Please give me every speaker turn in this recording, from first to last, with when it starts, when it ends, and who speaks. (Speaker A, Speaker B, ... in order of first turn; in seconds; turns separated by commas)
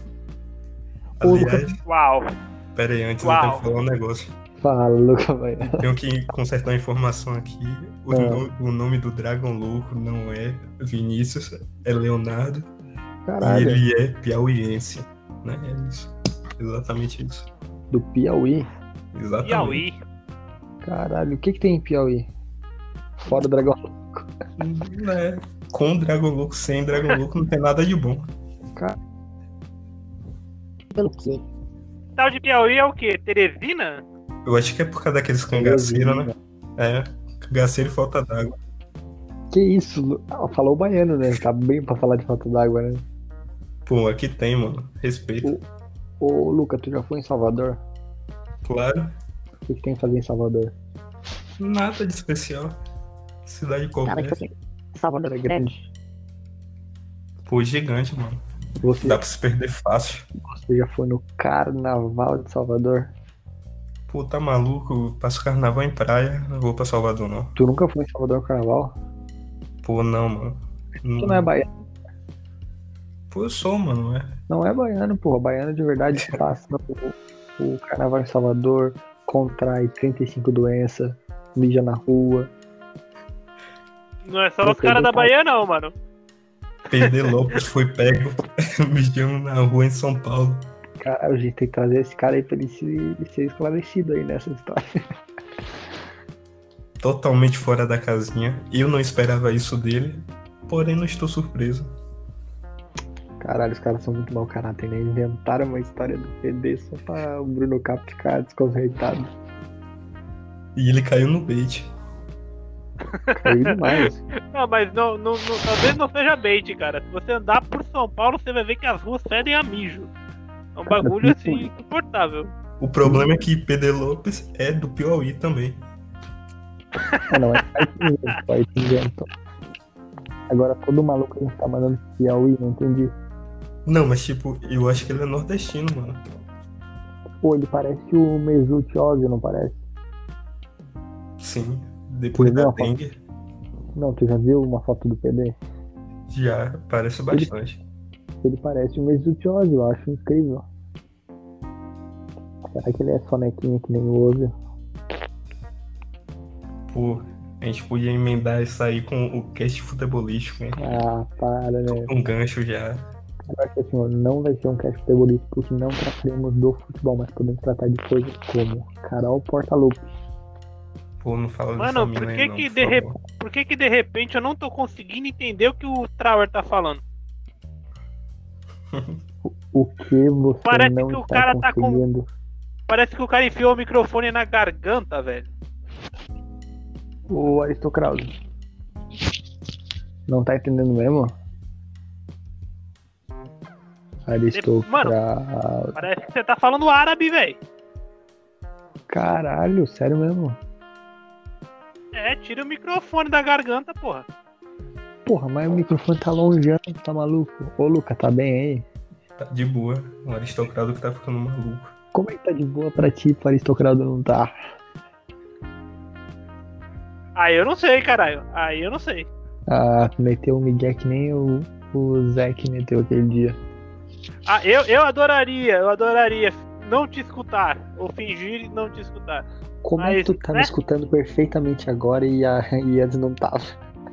Speaker A: 1.2-1.8, Speaker B: 1.2-1.8, Speaker C: 1.9-2.2, Speaker A: 2.7-4.3, Speaker C: 3.2-3.6, Speaker B: 4.6-5.8, Speaker A: 5.6-12.7, Speaker B: 8.1-8.5, Speaker B: 13.2-13.8, Speaker A: 13.4-17.5, Speaker B: 17.9-18.7, Speaker A: 19.1-19.8, Speaker C: 19.4-20.0, Speaker B: 20.8-22.3, Speaker B: 23.2-24.3, Speaker A: 24.6-28.3, Speaker D: 30.9-31.4, Speaker C: 32.2-34.0, Speaker A: 34.5-38.5, Speaker B: 35.5-36.3, Speaker B: 39.5-43.0, Speaker A: 43.9-45.5, Speaker B: 46.2-47.8, Speaker A: 48.6-49.1, Speaker B: 49.7-50.7, Speaker A: 51.6-52.8, Speaker A: 53.4-54.4, Speaker D: 54.0-55.6, Speaker B: 55.2-55.9, Speaker A: 57.4-58.4, Speaker B: 58.8-59.2, Speaker A: 59.0-60.3, Speaker B: 60.4-63.1, Speaker A: 64.1-67.5, Speaker B: 67.5-68.9, Speaker A: 69.8-71.5, Speaker B: 71.2-71.7, Speaker A: 73.3-74.4, Speaker B: 74.5-82.5, Speaker C: 84.2-85.9, Speaker B: 84.6-85.3, Speaker A: 86.9-90.7, Speaker C: 87.0-87.3, Speaker B: 91.0-94.9, Speaker A: 97.0-101.9, Speaker B: 103.4-109.3, Speaker A: 110.8-111.9, Speaker C: 113.1-113.7, Speaker B: 113.3-114.2, Speaker C: 114.3-120.1, Speaker C: 120.8-122.5, Speaker B: 120.9-121.7, Speaker A: 122.8-125.8, Speaker B: 123.0-123.3, Speaker C: 127.0-127.3, Speaker B: 127.3-129.3, Speaker B: 130.5-133.1, Speaker A: 133.8-136.2, Speaker B: 137.4-139.8, Speaker A: 141.4-143.2, Speaker B: 142.3-142.9, Speaker B: 143.9-145.6, Speaker A: 146.3-147.8, Speaker B: 148.4-150.7, Speaker B: 152.7-154.5, Speaker A: 156.9-160.8, Speaker B: 160.8-162.1, Speaker A: 161.9-163.1, Speaker B: 163.5-170.1, Speaker A: 171.2-173.2, Speaker C: 171.8-177.0, Speaker A: 178.9-179.2, Speaker B: 179.4-182.3, Speaker C: 180.7-182.0, Speaker C: 182.9-185.5, Speaker B: 187.3-188.3, Speaker B: 190.3-191.3, Speaker B: 194.2-196.0, Speaker C: 194.5-195.2, Speaker C: 195.9-197.6, Speaker B: 199.1-200.6, Speaker C: 202.1-204.2, Speaker B: 205.2-208.8, Speaker A: 209.4-211.9, Speaker B: 212.1-214.5, Speaker C: 217.3-219.3, Speaker B: 219.7-223.6, Speaker C: 224.4-229.4, Speaker B: 229.8-233.7, Speaker C: 230.0-230.7